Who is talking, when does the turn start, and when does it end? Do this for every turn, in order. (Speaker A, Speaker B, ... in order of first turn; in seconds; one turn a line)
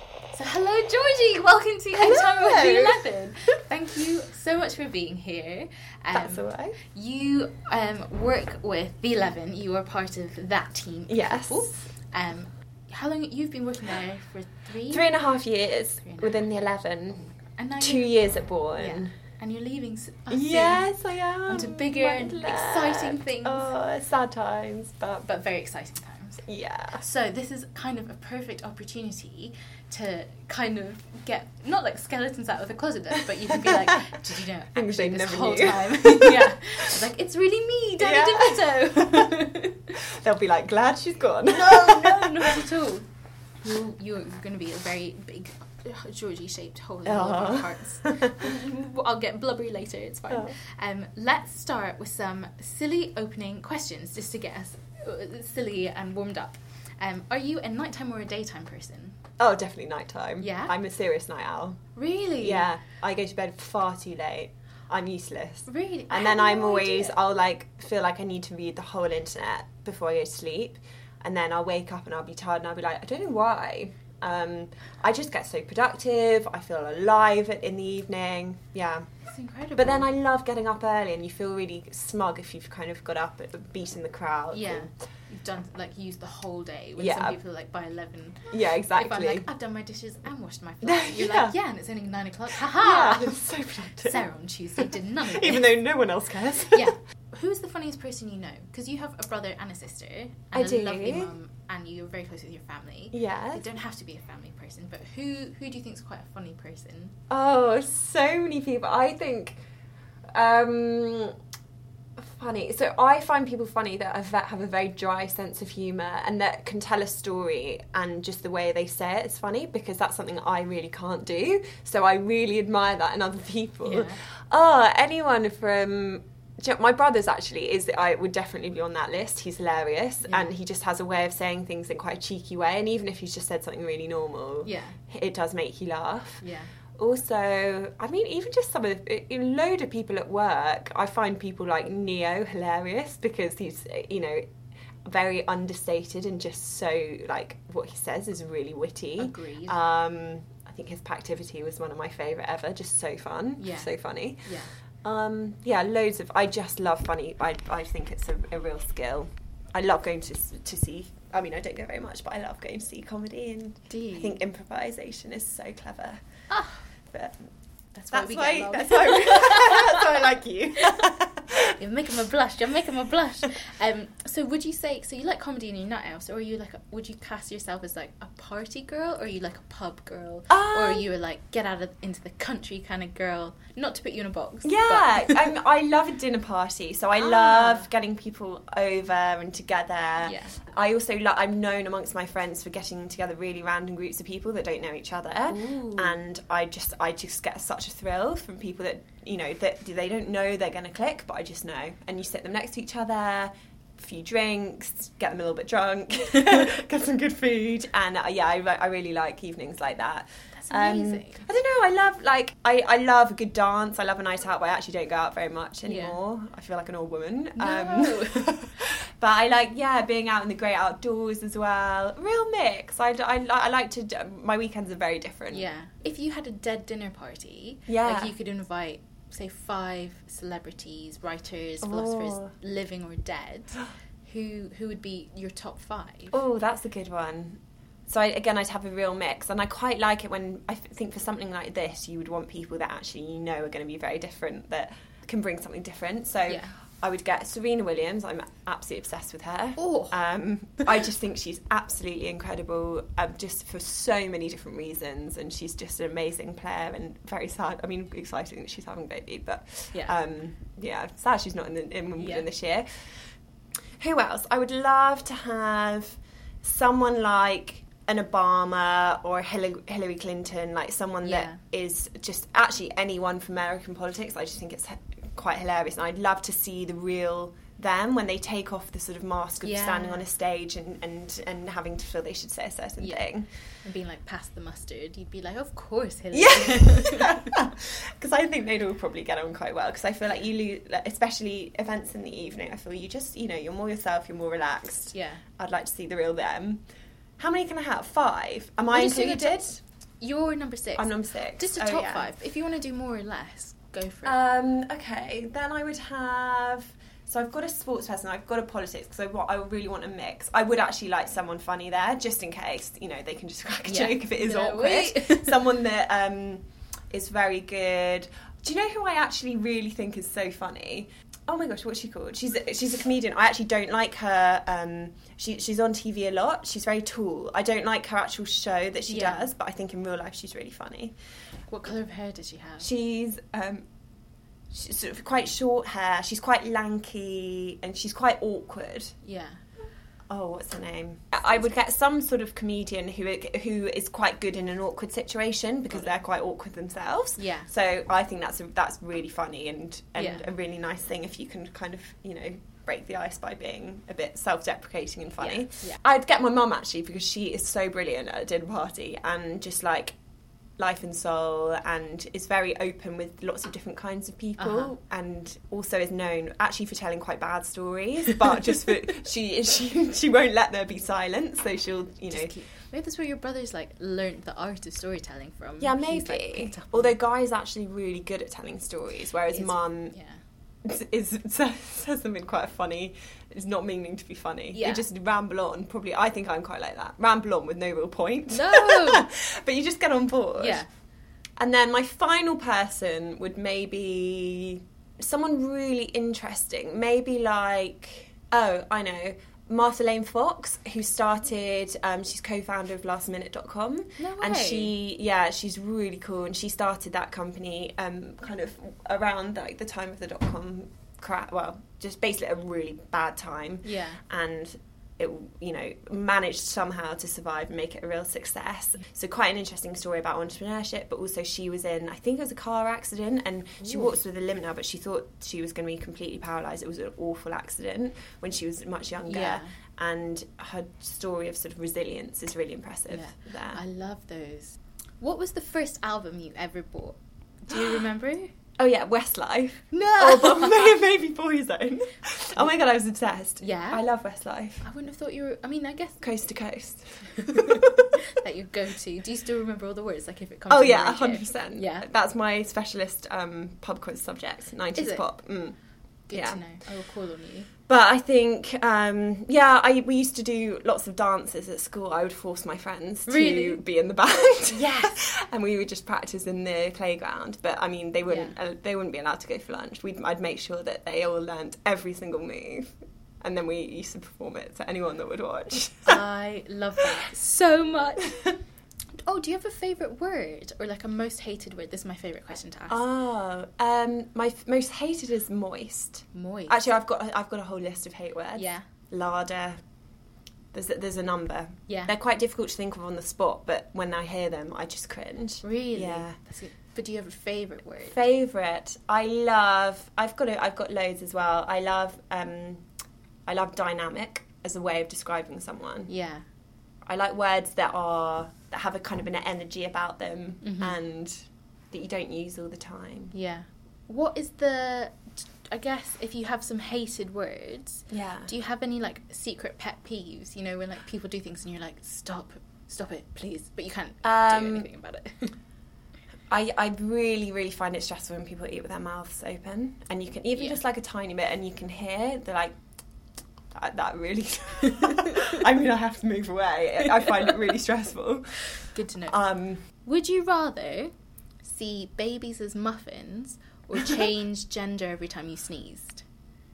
Speaker A: 0.3-15.1
Speaker B: 1.9-3.1
Speaker B: 6.1-6.8
Speaker B: 11.1-11.7
Speaker B: 14.9-17.3
Speaker A: 16.0-16.4
Speaker A: 17.3-23.7
Speaker B: 17.8-19.1
Speaker B: 20.3-25.3
Speaker A: 25.2-40.0
Speaker B: 26.5-27.0
Speaker B: 33.5-33.9
Speaker B: 34.7-36.8
Speaker B: 38.0-39.4
Speaker B: 40.0-42.6
Speaker A: 41.5-43.1
Speaker A: 43.6-59.2
Speaker B: 47.0-48.4
Speaker B: 50.3-50.6
Speaker B: 59.4-61.8
Speaker A: 60.4-60.8
Speaker A: 62.0-62.7
Speaker B: 62.4-79.0
Speaker A: 65.7-67.2
Speaker A: 79.3-80.1
Speaker B: 79.8-84.9
Speaker A: 84.5-95.8
Speaker B: 87.0-87.4
Speaker B: 88.5-89.5
Speaker B: 90.8-91.5
Speaker B: 92.5-94.2
Speaker B: 94.8-96.9
Speaker A: 96.7-107.1
Speaker B: 100.5-101.3
Speaker B: 103.1-103.6
Speaker B: 107.3-109.6
Speaker B: 110.3-111.3
Speaker B: 112.2-136.4
Speaker A: 123.8-124.2
Speaker A: 130.3-130.5
Speaker A: 134.6-135.0
Speaker A: 136.4-136.7
Speaker B: 137.0-144.4
Speaker B: 145.1-154.5
Speaker A: 149.2-149.8
Speaker A: 153.6-153.9
Speaker A: 154.4-154.7
Speaker B: 155.0-166.2
Speaker A: 163.9-164.4
Speaker A: 166.5-166.8
Speaker B: 167.1-167.5
Speaker A: 167.9-185.5
Speaker B: 168.1-171.6
Speaker B: 180.5-181.1
Speaker B: 184.6-225.7
Speaker A: 187.2-187.9
Speaker A: 190.2-190.5
Speaker A: 195.5-196.2
Speaker A: 210.5-211.4
Speaker A: 215.8-216.2
Speaker A: 217.6-218.8
Speaker A: 225.5-236.3
Speaker B: 227.9-228.3
Speaker B: 231.8-232.5
Speaker B: 236.3-262.9
Speaker A: 246.5-246.7
Speaker A: 249.8-250.2
Speaker A: 262.2-262.4
Speaker B: 264.0-283.5
Speaker A: 271.2-271.6
Speaker A: 279.6-280.2
Speaker A: 283.0-283.2
Speaker A: 283.8-287.6
Speaker B: 286.3-296.8
Speaker A: 295.1-295.4
Speaker B: 297.4-299.8
Speaker A: 298.9-304.4
Speaker B: 300.9-302.3
Speaker B: 304.2-331.1
Speaker A: 313.9-315.7
Speaker A: 329.1-329.5
Speaker A: 331.7-332.9
Speaker B: 332.8-333.8
Speaker B: 334.7-339.1
Speaker A: 339.2-339.6
Speaker B: 340.3-360.1
Speaker A: 347.4-347.7
Speaker A: 350.2-350.5
Speaker A: 355.4-356.0
Speaker B: 360.8-372.5
Speaker A: 364.6-364.9
Speaker A: 372.3-377.2
Speaker B: 375.8-380.1
Speaker A: 379.5-380.4
Speaker B: 380.8-390.8
Speaker A: 384.7-385.0
Speaker A: 388.5-389.3
Speaker A: 390.6-390.9
Speaker B: 391.6-433.8
Speaker A: 404.2-404.9
Speaker A: 413.8-414.2
Speaker A: 423.8-424.1
Speaker A: 429.2-429.7
Speaker A: 433.1-438.5
Speaker B: 437.7-438.0
Speaker B: 438.8-444.8
Speaker A: 439.9-441.0
Speaker A: 443.6-444.0
Speaker A: 444.8-446.3
Speaker B: 446.2-448.1
Speaker A: 447.4-452.1
Speaker B: 450.7-455.8
Speaker A: 454.9-455.2
Speaker A: 456.3-457.7
Speaker B: 456.3-456.6
Speaker B: 457.9-476.2
Speaker A: 463.3-463.8
Speaker A: 464.7-465.2
Speaker A: 468.2-468.6
Speaker A: 476.1-478.4
Speaker A: 479.2-483.1
Speaker B: 482.9-489.8
Speaker A: 486.3-486.9
Speaker A: 488.6-488.9
Speaker B: 490.7-496.4
Speaker A: 491.9-492.1
Speaker A: 495.6-498.2
Speaker B: 498.1-502.8
Speaker B: 503.5-506.1
Speaker A: 506.1-506.4
Speaker B: 507.1-511.4
Speaker A: 510.6-511.0
Speaker B: 511.9-513.3
Speaker A: 513.3-525.5
Speaker B: 518.1-518.5
Speaker B: 524.2-524.9
Speaker B: 526.5-532.7
Speaker B: 533.7-538.6
Speaker A: 535.0-535.3
Speaker A: 538.9-539.4
Speaker B: 539.3-539.8
Speaker A: 540.0-541.1
Speaker A: 541.6-546.2